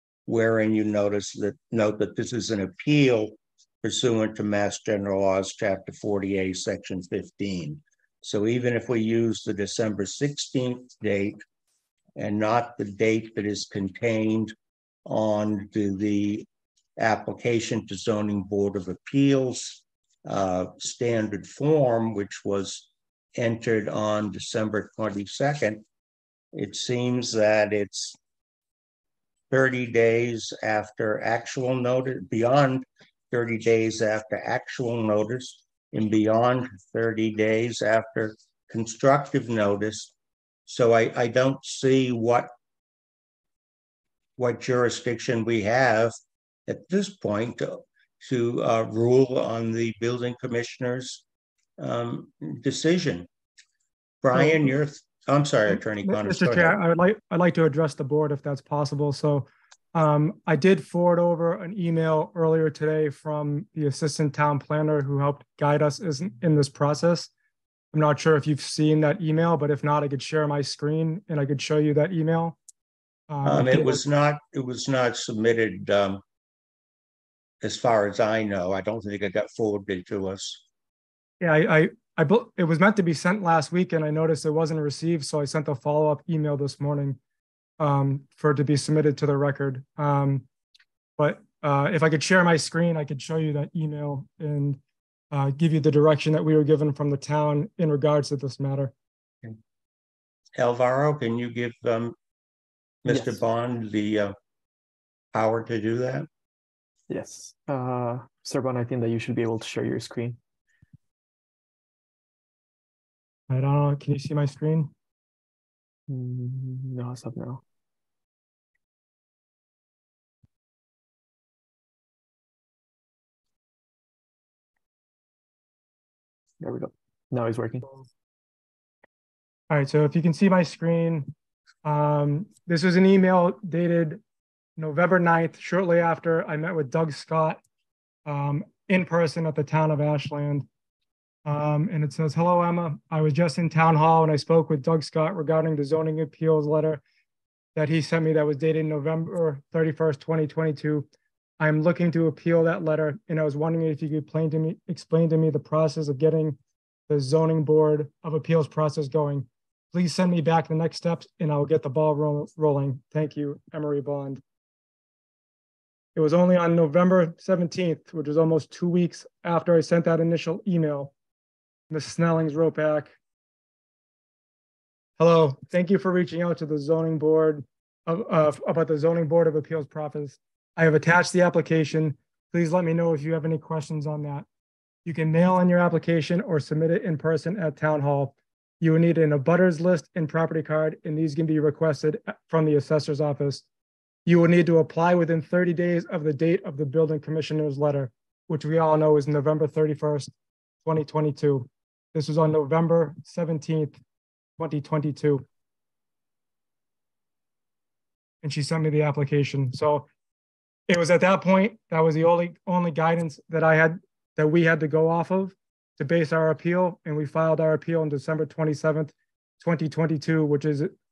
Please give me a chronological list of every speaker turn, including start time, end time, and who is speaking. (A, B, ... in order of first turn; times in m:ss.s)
0:00.3-0:11.4 A
0:12.2-0:14.5 A
0:15.1-0:16.5 A
0:17.0-0:25.8 A
0:26.5-0:28.2 A
0:29.5-0:40.1 A
0:40.7-0:42.5 A
0:44.4-0:46.2 A
0:46.7-0:51.2 A
0:51.8-0:53.3 A
0:54.2-0:56.8 A
0:56.0-1:07.3 B
1:07.9-1:12.6 B
1:13.3-1:14.0 B
1:13.4-1:16.2 A
1:17.6-1:20.6 A
1:21.4-1:27.2 B
1:27.8-1:30.4 B
1:31.2-1:34.8 B
1:35.3-1:38.9 B
1:40.6-1:42.2 A
1:43.0-1:44.3 A
1:43.1-1:43.4 C
1:45.3-1:46.3 A
1:47.1-1:50.4 C
1:53.5-1:54.9 B
1:56.1-1:57.6 C
2:06.6-2:07.9 C
2:09.7-2:11.3 B
2:11.8-2:14.2 B
2:14.8-2:17.6 B
2:18.2-2:20.7 B
2:21.5-2:27.0 B
2:27.8-2:31.0 B
2:31.6-2:36.6 B
2:37.1-2:44.4 B
2:46.2-2:51.1 B
2:51.9-2:53.1 B
2:55.2-3:04.5 B
3:05.0-3:13.6 B
3:14.2-3:20.3 B
3:20.8-3:24.0 B
3:24.6-3:25.4 B
3:28.4-3:30.1 B
3:30.9-3:40.9 B